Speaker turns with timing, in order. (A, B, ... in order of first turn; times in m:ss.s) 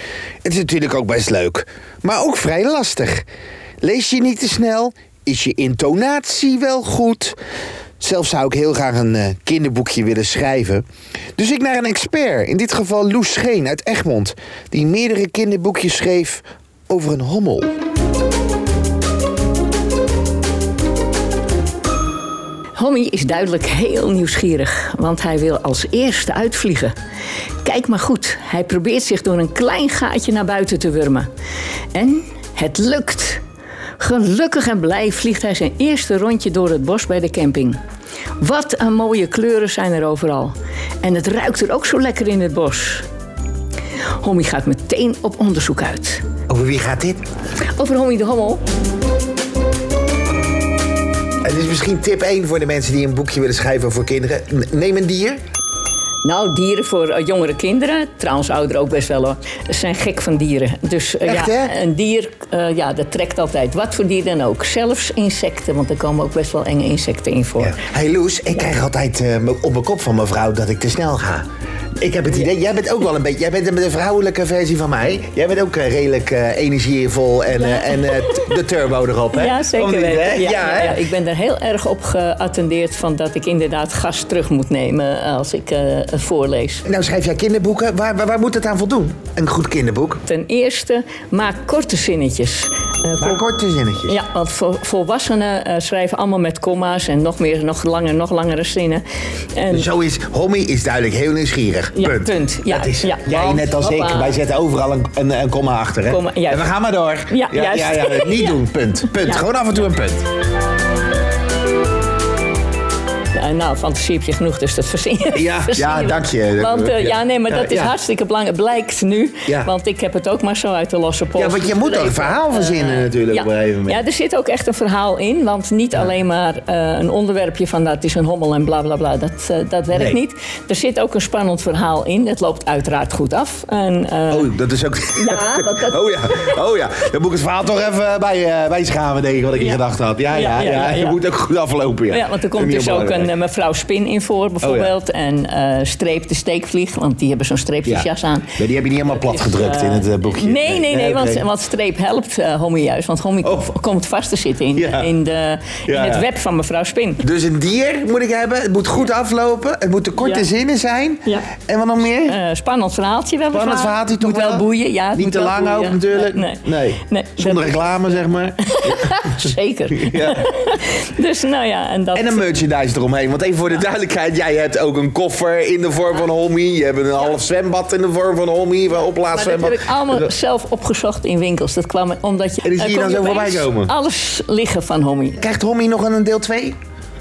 0:00.4-0:03.2 A
0:03.8-0:07.4 A
0:08.0-0:10.8 A
0:11.4-0:17.7 A
0:22.8-0:26.9 B
0:27.6-0:31.3 B
0:31.9-0:33.4 B
0:34.0-0:37.8 B
0:38.4-0:43.0 B
0:44.2-0:46.2 B
0:46.5-0:47.2 A
0:47.8-0:48.6 B
0:51.4-0:55.4 A
0:56.2-1:07.8 B
1:01.2-1:01.7 A
1:07.6-1:11.4 A
1:12.0-1:21.0 A
1:17.6-1:18.4 B
1:19.3-1:26.8 B
1:26.8-1:30.2 A
1:30.3-1:33.4 B
1:33.2-1:34.2 A
1:34.1-1:39.0 B
1:39.5-1:39.9 B
1:39.7-1:50.2 A
1:41.9-1:44.4 B
1:46.1-1:46.7 B
1:47.3-1:49.5 B
1:53.3-2:14.5 B
1:55.3-1:57.9 A
2:01.3-2:04.0 A
2:09.9-2:10.2 A
2:14.3-2:23.3 A
2:15.1-2:16.4 B
2:19.6-2:21.2 B
2:22.1-2:37.2 B
2:24.6-2:24.9 A
2:27.8-2:31.4 A
2:33.4-2:33.7 A
2:34.7-2:35.1 A
2:35.9-2:36.3 A
2:37.2-2:42.4 A
2:40.2-2:40.5 B
2:41.2-2:41.5 B
2:42.2-2:52.6 B
2:43.5-2:49.3 A
2:49.9-2:50.5 A
2:52.1-3:00.3 A
2:59.3-3:05.4 B
3:02.6-3:03.9 A
3:05.4-3:06.8 A